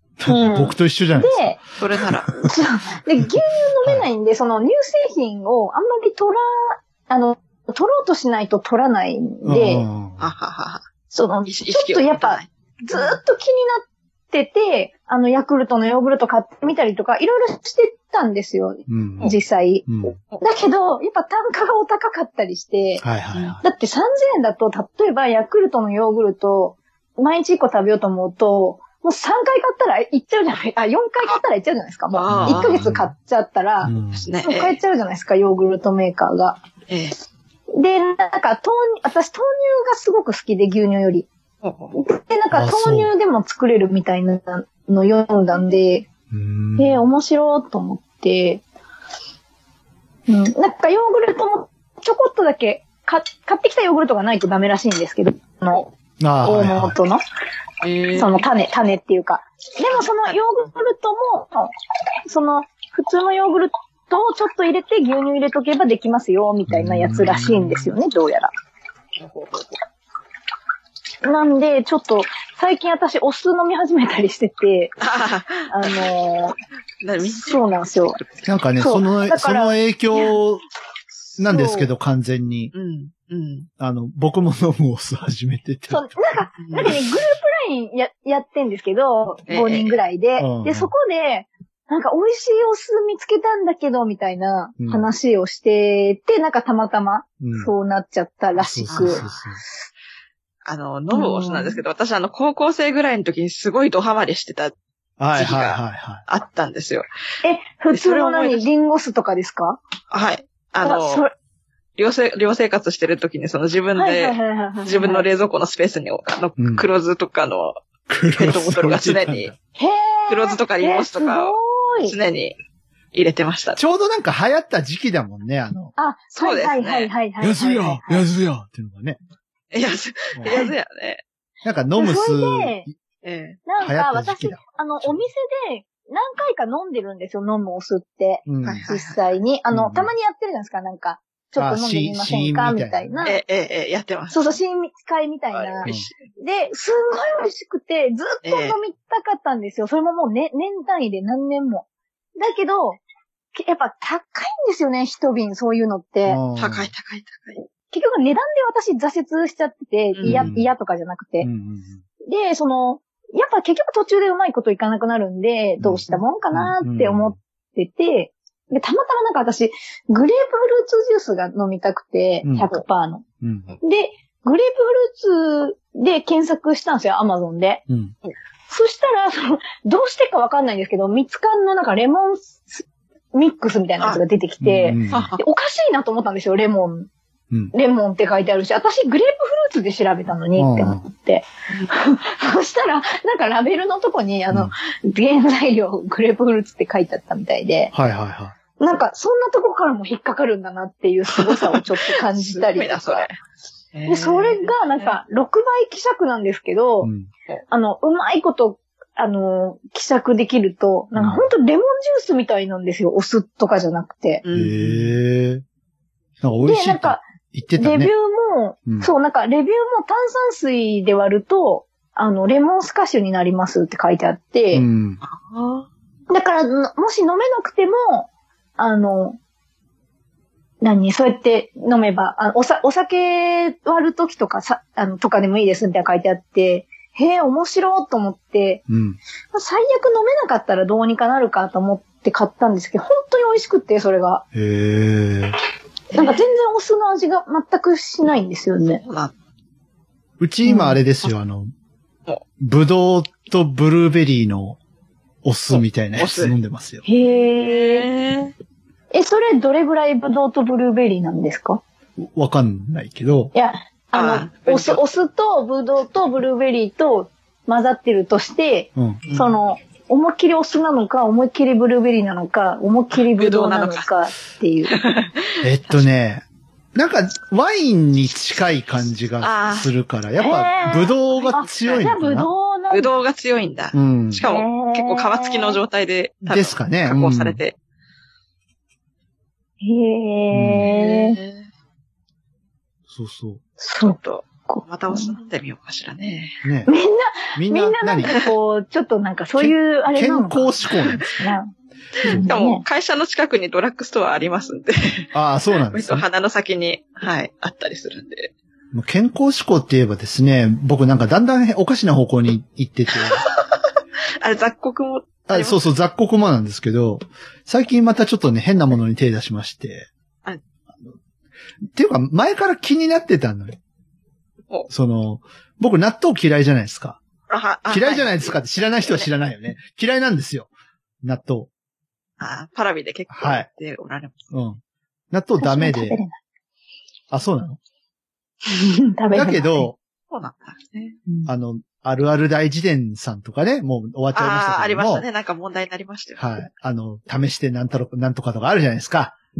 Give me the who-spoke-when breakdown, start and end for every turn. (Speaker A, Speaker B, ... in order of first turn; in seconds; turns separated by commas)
Speaker A: 0.2-1.4, Speaker B: 0.3-1.6, Speaker C: 1.8-2.4, Speaker A: 2.0-2.5, Speaker B: 2.5-9.8, Speaker A: 9.4-10.3, Speaker C: 10.2-10.8, Speaker B: 11.1-23.0, Speaker C: 11.5-13.1, Speaker A: 18.9-19.3, Speaker A: 19.9-20.2, Speaker A: 23.0-23.6, Speaker B: 23.6-36.6, Speaker C: 32.1-32.9, Speaker A: 32.3-33.1, Speaker A: 33.8-34.3, Speaker C: 34.3-34.8, Speaker C: 36.9-37.1, Speaker B: 37.8-41.3, Speaker C: 41.6-42.0, Speaker B: 41.9-46.1, Speaker A: 42.5-43.1, Speaker A: 46.3-47.0, Speaker B: 46.8-48.6, Speaker B: 50.3-55.9, Speaker A: 56.2-57.0, Speaker B: 56.4-57.2, Speaker C: 57.8-58.5, Speaker B: 58.1-61.7, Speaker B: 62.3-68.5, Speaker A: 66.7-67.9, Speaker C: 69.2-69.7, Speaker B: 71.2-74.9, Speaker C: 75.0-75.9, Speaker B: 75.7-76.6, Speaker C: 77.0-78.5, Speaker B: 77.2-78.2, Speaker A: 78.5-80.6, Speaker B: 78.8-79.8, Speaker A: 81.4-82.7, Speaker B: 81.5-81.9, Speaker C: 82.7-83.7, Speaker A: 83.8-87.0, Speaker B: 85.9-99.2, Speaker C: 86.6-87.0, Speaker C: 89.5-90.0, Speaker A: 90.4-90.9, Speaker A: 94.8-95.1, Speaker A: 97.4-97.7, Speaker A: 98.6-99.6, Speaker C: 98.9-99.4, Speaker C: 100.7-104.7, Speaker B: 101.1-101.8, Speaker A: 105.2-106.2, Speaker C: 105.3-107.1, Speaker B: 107.4-109.8, Speaker C: 107.9-108.7, Speaker C: 110.1-111.2, Speaker B: 110.8-111.3, Speaker C: 112.0-117.8, Speaker B: 114.0-115.3, Speaker A: 116.6-116.9, Speaker A: 118.1-119.6, Speaker C: 118.4-119.5, Speaker B: 119.8-122.2, Speaker C: 120.3-122.6, Speaker C: 123.1-123.8, Speaker A: 123.8-125.9, Speaker B: 126.0-128.3, Speaker C: 126.3-127.1, Speaker A: 127.4-129.2, Speaker C: 129.7-131.2, Speaker A: 131.6-133.0, Speaker B: 131.9-132.9, Speaker C: 133.2-133.6, Speaker B: 133.7-143.4, Speaker A: 133.8-135.2, Speaker A: 138.5-138.9, Speaker C: 138.6-139.2, Speaker A: 139.7-140.1, Speaker A: 141.6-143.3, Speaker C: 143.2-144.6, Speaker B: 144.3-151.9, Speaker C: 145.5-146.2, Speaker C: 148.4-148.8, Speaker B: 152.4-153.0, Speaker B: 153.6-156.4, Speaker A: 156.3-156.9, Speaker C: 156.6-157.6, Speaker B: 157.9-161.5, Speaker C: 160.2-160.5, Speaker A: 160.2-160.7, Speaker A: 161.4-162.0, Speaker B: 162.3-173.2, Speaker A: 165.8-167.4, Speaker A: 172.4-172.7, Speaker A: 173.4-173.7, Speaker B: 173.8-177.8, Speaker B: 178.7-187.1, Speaker A: 184.6-185.3, Speaker C: 185.1-185.4, Speaker B: 187.7-197.9, Speaker A: 190.6-191.0, Speaker A: 197.9-198.6, Speaker B: 198.8-203.3, Speaker C: 201.3-203.3, Speaker C: 203.9-205.2, Speaker B: 204.1-207.1, Speaker A: 207.0-207.3, Speaker B: 207.7-214.4, Speaker A: 211.1-211.5, Speaker C: 214.4-215.2, Speaker A: 214.5-215.6, Speaker A: 216.4-218.1, Speaker B: 216.6-224.9, Speaker A: 224.7-225.2, Speaker C: 225.2-225.9, Speaker B: 226.3-229.4, Speaker B: 230.8-238.8, Speaker A: 238.9-239.2, Speaker B: 239.5-244.4, Speaker A: 244.5-245.6, Speaker C: 246.1-246.4, Speaker B: 246.1-249.0, Speaker C: 249.0-249.3, Speaker A: 250.4-251.7, Speaker B: 250.7-251.0, Speaker A: 252.6-254.8, Speaker A: 255.4-257.0, Speaker C: 255.7-256.6, Speaker B: 257.1-258.1, Speaker C: 257.6-258.5, Speaker B: 259.1-261.8, Speaker A: 262.2-263.5, Speaker B: 263.5-275.0, Speaker C: 264.1-265.0, Speaker A: 269.0-269.3, Speaker C: 269.3-269.6, Speaker C: 273.2-274.1, Speaker C: 274.9-276.0, Speaker A: 275.6-282.5, Speaker C: 279.4-279.9, Speaker B: 280.4-283.1, Speaker C: 281.2-282.1, Speaker C: 282.9-287.8, Speaker A: 283.9-284.5, Speaker B: 284.5-285.8, Speaker A: 286.5-287.6, Speaker B: 289.8-291.4, Speaker A: 290.5-290.9, Speaker C: 290.9-291.7, Speaker A: 293.1-293.6, Speaker B: 293.8-295.4, Speaker C: 294.0-296.6, Speaker A: 296.6-296.9, Speaker B: 296.9-301.7, Speaker A: 297.6-298.4, Speaker A: 299.6-301.3, Speaker C: 302.2-308.5, Speaker B: 302.2-302.8, Speaker A: 305.3-306.3, Speaker A: 308.9-313.4, Speaker C: 313.1-313.9, Speaker C: 314.4-315.8, Speaker A: 315.5-320.1, Speaker A: 321.9-323.8, Speaker A: 324.9-327.2, Speaker C: 327.5-329.3, Speaker A: 327.9-330.7, Speaker A: 331.2-331.7, Speaker C: 332.4-334.5, Speaker A: 333.3-333.7, Speaker A: 334.5-334.8, Speaker A: 335.3-336.2, Speaker B: 335.6-336.4, Speaker A: 337.3-337.8, Speaker B: 338.7-339.9, Speaker A: 339.3-340.0, Speaker C: 340.3-341.2, Speaker A: 341.5-345.2, Speaker C: 344.3-346.4, Speaker A: 346.4-349.4